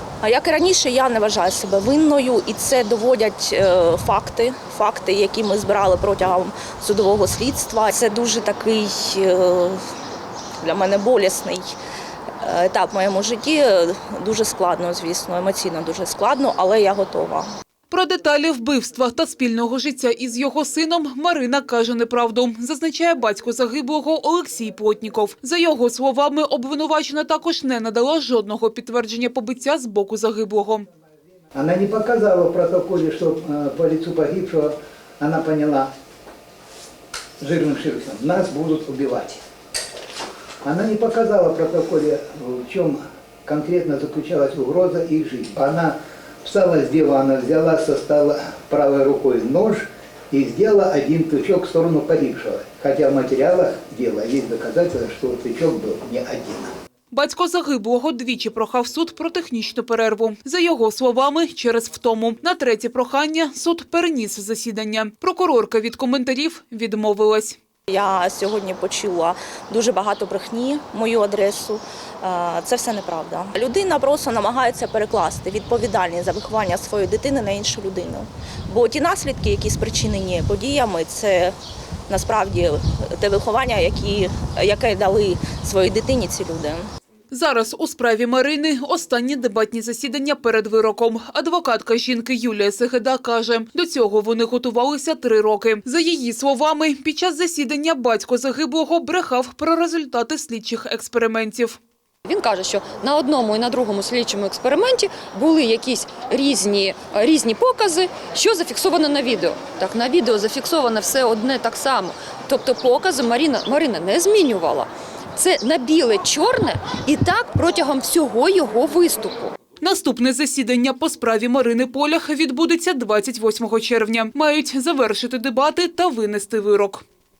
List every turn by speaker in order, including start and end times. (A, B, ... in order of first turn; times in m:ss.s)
0:00.2-0:09.8 A
0:10.6-0:11.7 A
0:12.4-0:17.5 A
0:17.9-0:30.8 B
0:31.5-0:35.9 C
0:37.4-0:39.4 C
0:40.6-0:56.7 C
0:57.1-1:07.6 B
1:07.9-1:21.5 A
1:22.1-1:26.9 A
1:27.3-1:41.8 B
1:42.2-1:59.5 D
1:59.8-2:07.0 B